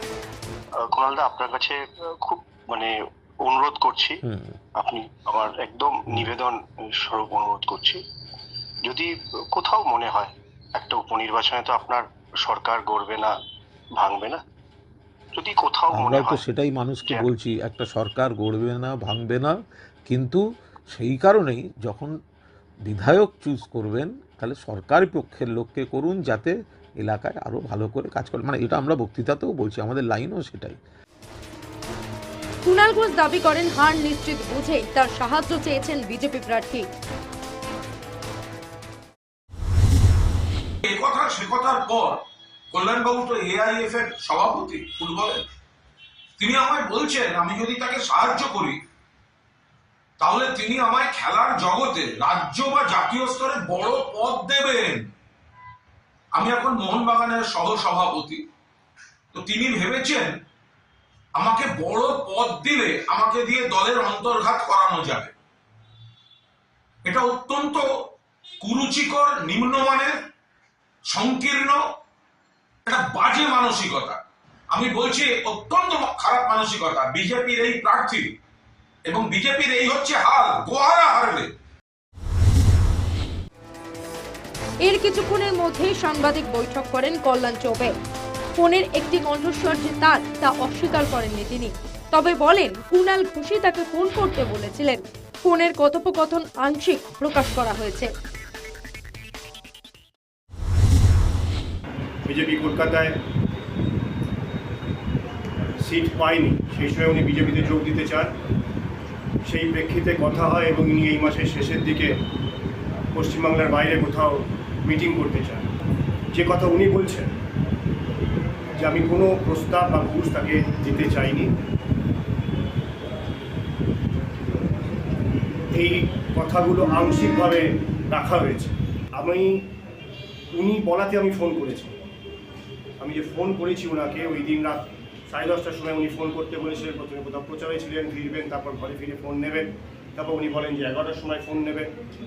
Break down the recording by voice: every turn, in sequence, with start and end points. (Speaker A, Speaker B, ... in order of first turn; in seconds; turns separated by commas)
Speaker A: 0.8-2.9, Speaker A: 3.4-4.2, Speaker B: 4.3-4.6, Speaker A: 4.8-8.0, Speaker A: 8.9-13.3, Speaker A: 14.0-14.4, Speaker A: 15.3-16.4, Speaker B: 15.9-19.6, Speaker B: 20.1-22.1, Speaker B: 22.9-30.8, Speaker C: 32.6-36.9, Speaker D: 40.8-42.2, Speaker D: 42.7-45.4, Speaker D: 46.4-48.8, Speaker D: 50.2-55.0, Speaker D: 56.3-58.4, Speaker D: 59.3-60.3, Speaker D: 61.4-65.3, Speaker D: 67.0-67.8, Speaker D: 68.6-70.2, Speaker D: 71.1-71.8, Speaker D: 72.9-74.2, Speaker D: 74.7-78.3, Speaker D: 79.1-81.5, Speaker C: 84.8-87.9, Speaker C: 88.6-98.1, Speaker E: 102.2-103.2, Speaker E: 105.8-108.3, Speaker E: 109.5-112.2, Speaker E: 113.1-115.7, Speaker E: 116.3-117.3, Speaker E: 118.8-121.5, Speaker E: 125.7-129.7, Speaker E: 130.5-131.9, Speaker E: 133.0-141.9